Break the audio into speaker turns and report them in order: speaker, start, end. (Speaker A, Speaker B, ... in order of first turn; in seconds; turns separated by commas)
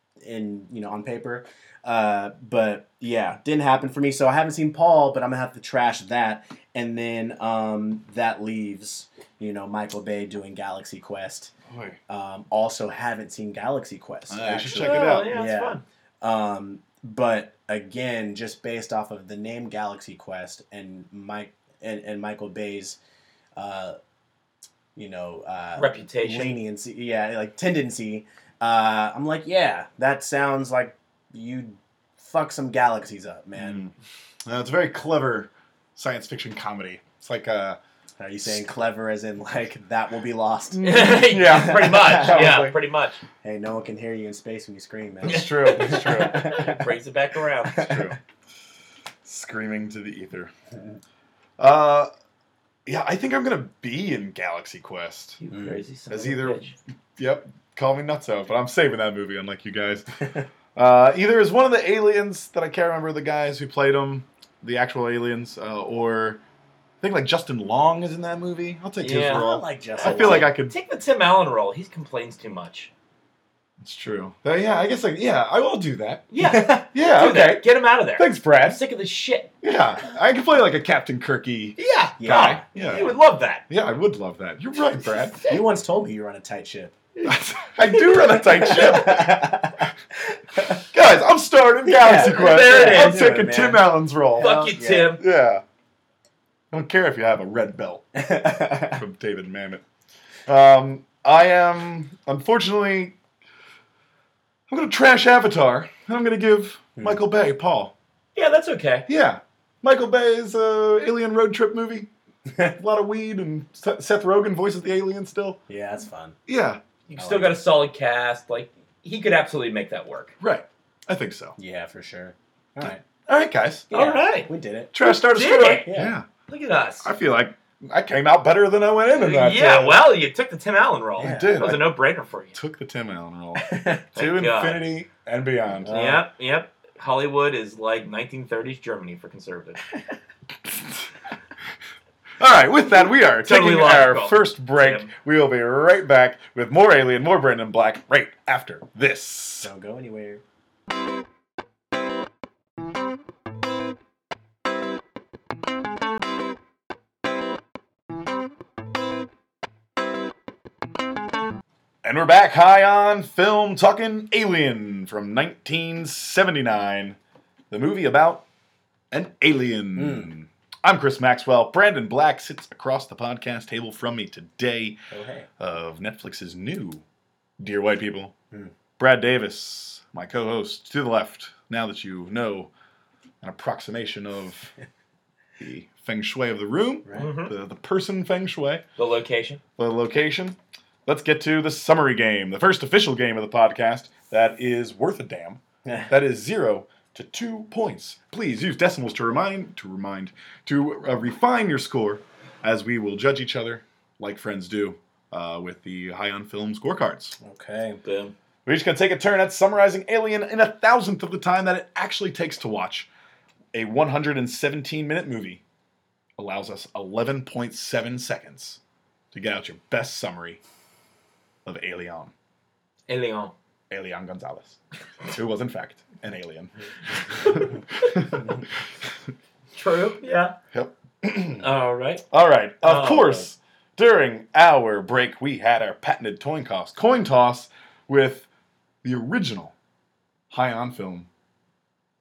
Speaker A: 0.2-11.5, Speaker B: 11.7-12.0, Speaker A: 12.1-23.0, Speaker B: 14.3-15.3, Speaker C: 14.7-15.8, Speaker A: 23.6-23.9, Speaker A: 24.9-33.9, Speaker C: 25.8-26.6, Speaker B: 33.6-33.9, Speaker B: 34.4-37.8, Speaker A: 38.2-42.5, Speaker B: 40.7-42.8, Speaker C: 40.8-43.2, Speaker A: 43.4-46.9, Speaker B: 45.2-46.6, Speaker C: 45.2-47.9, Speaker A: 47.7-48.1, Speaker B: 47.8-48.2, Speaker B: 49.2-50.5, Speaker B: 51.6-52.1, Speaker B: 52.9-55.4, Speaker C: 55.4-56.8, Speaker A: 55.5-55.8, Speaker B: 56.1-56.6, Speaker B: 57.2-60.1, Speaker B: 60.8-66.4, Speaker B: 67.0-70.8, Speaker C: 69.0-69.5, Speaker A: 69.2-70.5, Speaker C: 70.0-72.9, Speaker B: 73.8-76.3, Speaker C: 76.3-79.5, Speaker A: 76.4-76.9, Speaker B: 76.9-78.8, Speaker B: 79.6-83.2, Speaker C: 81.8-83.6, Speaker A: 82.2-82.6, Speaker B: 83.7-85.4, Speaker C: 85.0-85.6, Speaker A: 85.5-87.0, Speaker B: 87.2-89.9, Speaker A: 88.1-90.8, Speaker B: 90.8-94.5, Speaker A: 91.8-95.2, Speaker C: 92.2-93.2, Speaker C: 94.4-95.2, Speaker B: 95.2-95.6, Speaker B: 96.7-98.2, Speaker A: 98.1-99.0, Speaker B: 98.8-99.8, Speaker B: 100.5-103.2, Speaker B: 104.7-107.9, Speaker C: 108.3-109.1, Speaker B: 109.1-112.1, Speaker B: 112.6-115.6, Speaker A: 115.7-116.4, Speaker B: 116.5-116.8, Speaker C: 117.1-120.3, Speaker A: 117.2-117.6, Speaker B: 120.4-121.6, Speaker A: 121.6-123.0, Speaker B: 122.8-123.9, Speaker A: 123.9-124.9, Speaker C: 123.9-124.5, Speaker B: 124.9-126.3, Speaker C: 125.1-125.9, Speaker A: 125.9-126.1, Speaker C: 126.5-127.1, Speaker B: 127.0-130.0, Speaker C: 129.1-132.6, Speaker A: 131.2-131.8, Speaker B: 131.2-131.9, Speaker B: 132.5-135.9, Speaker A: 133.6-134.0, Speaker C: 134.2-134.9, Speaker A: 135.8-136.3, Speaker C: 135.9-139.8, Speaker B: 140.6-141.1, Speaker B: 142.4-149.7, Speaker C: 143.4-145.1, Speaker A: 149.6-150.4, Speaker B: 162.0-167.2, Speaker B: 167.7-168.4, Speaker B: 169.1-175.0, Speaker A: 169.9-170.3, Speaker A: 175.1-175.5, Speaker B: 175.6-177.0, Speaker B: 177.6-178.3, Speaker B: 179.0-182.7, Speaker B: 183.4-184.7, Speaker B: 185.6-188.8, Speaker C: 187.1-187.5, Speaker C: 189.0-189.6, Speaker B: 189.8-207.4, Speaker A: 195.8-196.1, Speaker A: 207.4-208.0, Speaker C: 208.0-208.3, Speaker B: 208.7-213.1, Speaker B: 213.7-215.6, Speaker B: 216.4-218.8, Speaker B: 219.3-220.6, Speaker B: 221.6-222.3, Speaker C: 223.1-223.5, Speaker B: 223.9-228.5, Speaker C: 227.1-228.4, Speaker C: 229.7-230.6, Speaker B: 230.7-231.7, Speaker C: 231.6-232.2, Speaker B: 232.3-238.5, Speaker C: 232.8-233.5, Speaker B: 239.0-239.7, Speaker B: 240.5-241.3